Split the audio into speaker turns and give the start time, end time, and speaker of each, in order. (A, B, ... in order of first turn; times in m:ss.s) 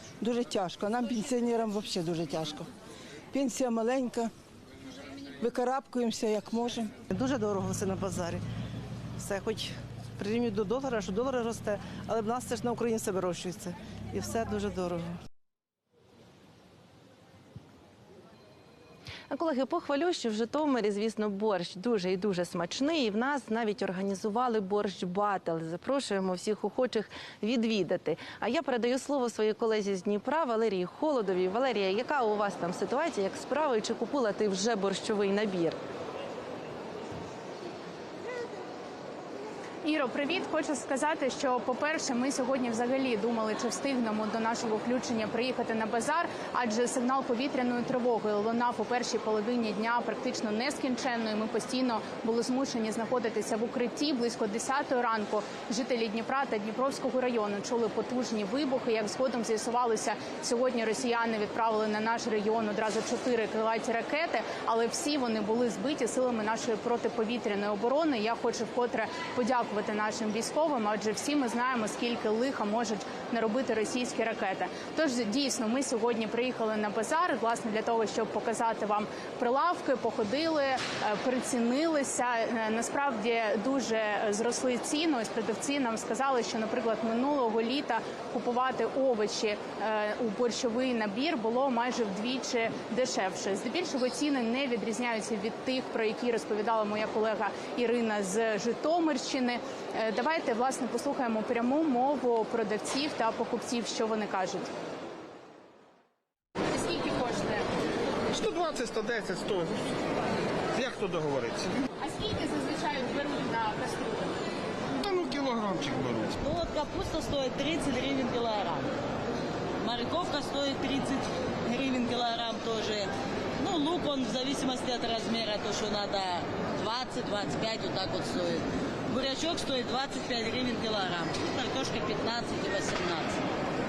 0:00.2-0:02.7 A
0:03.3-0:04.3 A
0:05.4-0:06.9 A
0:07.1-0:08.4 B
0:09.2-0:15.2 B
0:19.3-0:35.8 C
0:39.8-1:44.7 D
1:46.7-1:47.6 D
1:48.3-1:49.9 E
1:50.7-1:51.7 E
1:52.0-1:54.4 D
1:55.0-1:56.4 E
1:56.3-1:58.9 F
1:59.8-2:13.4 F